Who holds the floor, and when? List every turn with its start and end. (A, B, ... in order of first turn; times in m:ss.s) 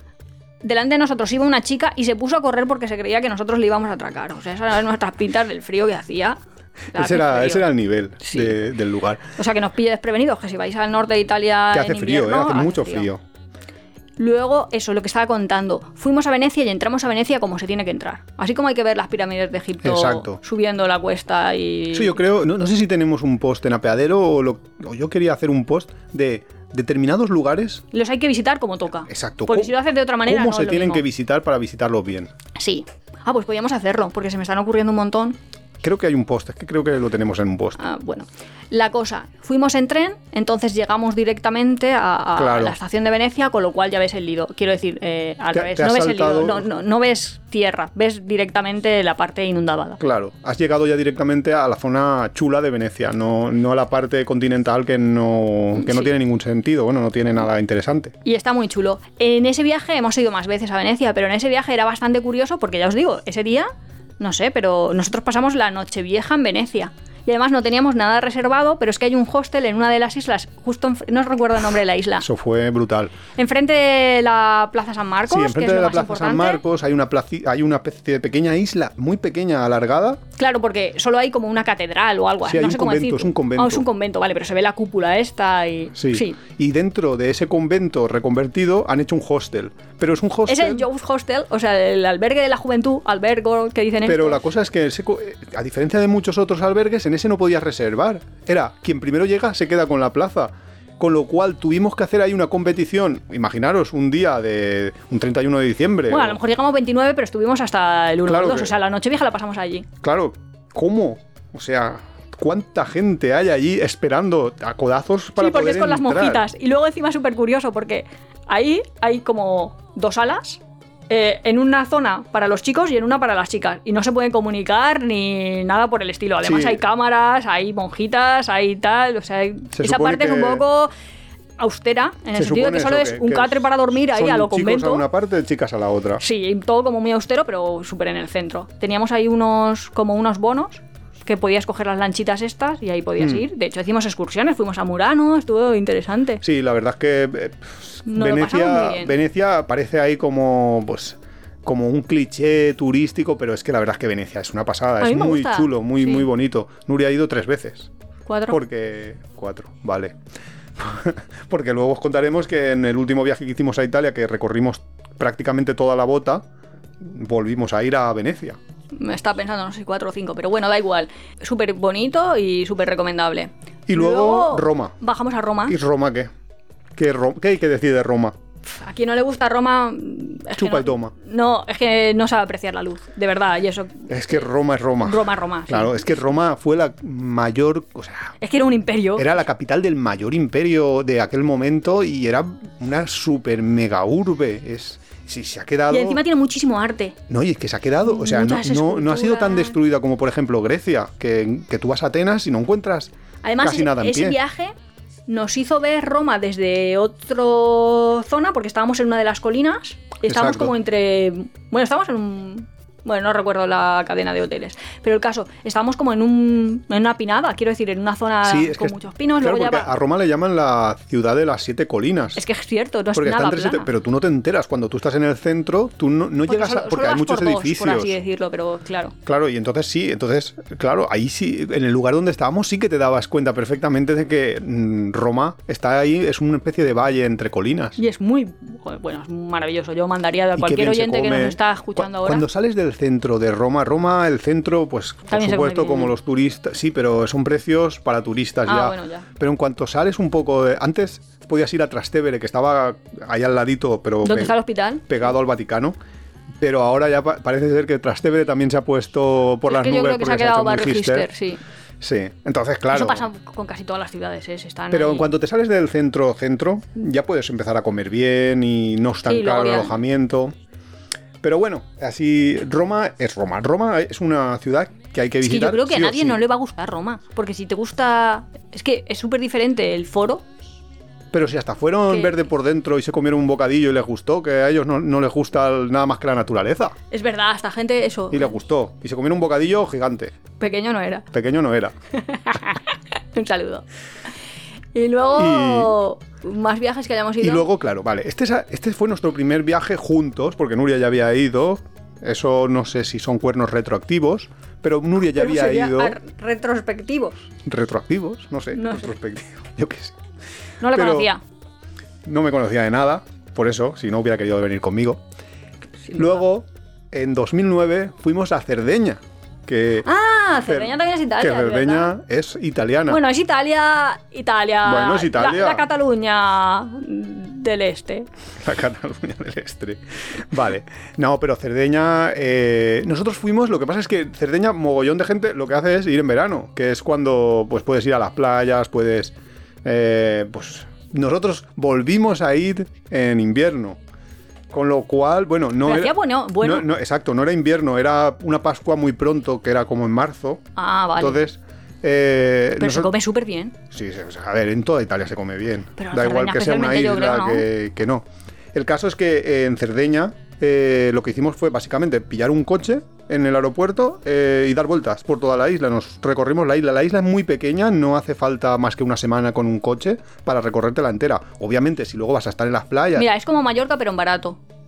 0:00.6-0:06.4 A
0:06.9-0:07.7 A
0:07.0-0:09.2 B
0:08.2-0:08.6 A
0:09.4-0:13.1 A
0:11.7-0:13.2 B
0:14.2-0:22.2 A
0:19.8-0:20.4 B
0:21.9-0:27.8 B
0:27.9-0:31.0 A
0:29.1-0:29.7 B
0:30.3-0:32.3 B
0:32.6-0:35.4 A
0:35.8-0:37.8 B
0:37.8-0:50.0 A
0:42.4-0:42.8 B
0:45.5-0:46.7 B
0:50.0-0:58.1 B
0:55.8-0:56.1 A
0:58.2-1:03.7 A
1:04.2-1:12.3 A
1:12.2-1:13.1 B
1:13.4-1:16.6 A
1:15.3-1:20.2 B
1:20.4-1:26.4 A
1:22.4-1:23.8 B
1:26.0-1:30.8 B
1:30.5-1:34.4 A
1:34.1-1:46.4 B
1:46.1-1:49.9 A
1:48.3-1:48.8 B
1:50.0-1:56.4 B
1:55.4-2:10.9 A
2:06.4-2:06.8 B
2:09.7-2:10.6 B
2:11.6-2:15.0 A
2:12.4-2:16.2 B
2:16.2-2:26.4 A
2:23.2-2:23.4 B
2:26.4-2:37.9 B
2:28.1-2:29.1 A
2:35.0-2:36.3 A
2:38.3-2:38.6 A
2:38.5-2:40.2 B
2:40.8-2:46.4 B
2:47.0-2:48.6 B
2:48.9-2:55.8 A
2:53.9-2:55.0 B
2:55.7-2:56.3 B
2:57.0-2:58.4 B
2:58.6-3:04.5 A
3:00.6-3:01.1 B
3:04.1-3:08.4 B
3:05.0-3:06.1 A
3:08.4-3:09.3 A
3:09.2-3:16.2 B
3:15.9-3:17.2 A
3:17.3-3:24.4 B
3:18.0-3:19.8 A
3:23.4-3:24.7 A
3:25.3-3:39.9 A
3:30.2-3:30.7 B
3:38.4-3:42.4 B
3:42.4-3:43.9 A
3:43.2-3:48.2 B
3:46.5-3:49.2 A
3:49.2-3:58.0 B
3:58.0-4:02.4 A
4:00.6-4:14.6 B
4:05.3-4:06.1 A
4:08.7-4:09.3 A
4:14.2-4:15.2 A
4:15.1-4:16.0 B
4:16.6-4:21.3 B
4:19.7-4:21.6 A
4:22.0-4:23.3 B
4:22.9-4:25.4 A
4:24.9-4:30.5 B
4:29.3-4:30.0 A
4:31.4-4:36.4 B
4:35.4-4:40.4 A
4:41.3-4:47.0 B
4:42.1-4:42.4 A
4:47.1-4:48.6 A
4:48.3-4:50.4 B
4:50.6-4:51.3 A
4:51.3-4:52.0 B
4:52.1-4:53.8 A
4:55.0-4:57.7 A
4:55.3-4:56.0 B
4:57.4-5:06.2 B
5:05.3-5:07.5 A
5:07.7-5:10.2 B
5:08.7-5:09.1 A
5:10.8-5:11.4 A
5:10.9-5:11.3 B
5:12.2-5:15.2 B
5:16.1-5:16.4 A
5:16.1-5:20.1 B
5:20.0-5:22.1 A
5:20.7-5:23.2 B
5:23.1-5:28.3 A
5:24.8-5:25.8 B
5:28.6-5:44.0 B
5:44.7-5:50.6 B
5:45.8-5:46.9 A
5:50.8-5:51.4 A
5:51.2-5:53.1 B
5:52.8-5:53.8 A
5:53.9-6:13.3 B
5:56.0-5:57.7 A
6:13.2-6:14.6 A